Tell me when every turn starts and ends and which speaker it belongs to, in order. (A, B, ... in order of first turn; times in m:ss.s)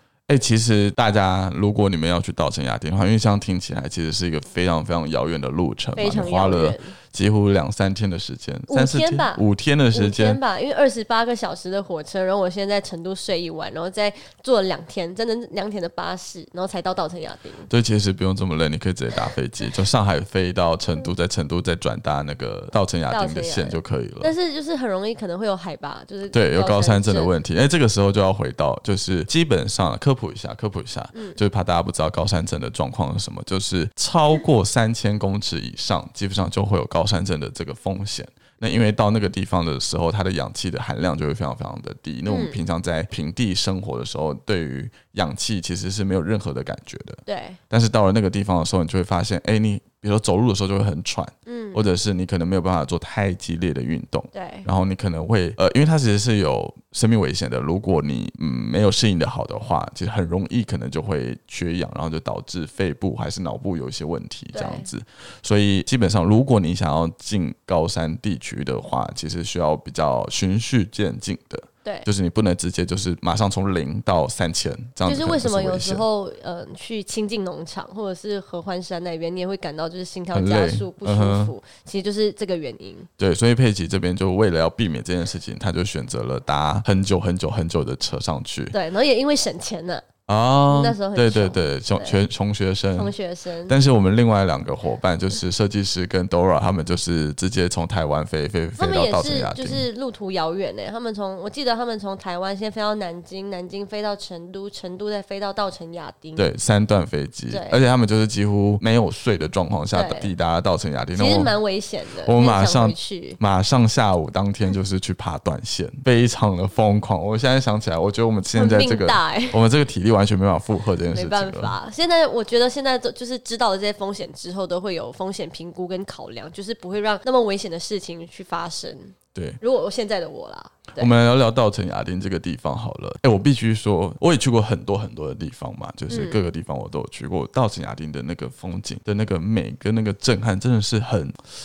0:00.3-0:10.4 A
0:06.0-0:06.9 B
0:08.7-0:17.7 B
0:17.7-0:24.3 A
0:23.1-0:27.3 B
0:26.3-1:16.0 A
0:31.1-0:31.4 B
0:42.3-0:42.6 B
0:47.3-0:47.6 B
0:51.4-0:51.8 B
0:54.3-0:54.7 B
1:04.5-1:04.9 B
1:15.0-1:23.1 B
1:20.3-1:21.5 A
1:23.2-1:28.8 A
1:28.7-1:30.1 B
1:30.3-1:33.1 A
1:30.7-1:32.2 B
1:33.0-1:33.8 B
1:33.7-1:39.8 A
1:38.8-1:46.4 B
1:46.4-1:51.5 A
1:47.5-1:47.8 B
1:49.9-1:50.3 B
1:51.1-1:53.4 B
1:52.2-2:01.7 A
1:58.5-1:59.6 B
2:01.1-2:11.1 B
2:09.3-2:09.6 A
2:10.9-2:21.4 A
2:16.1-2:16.4 B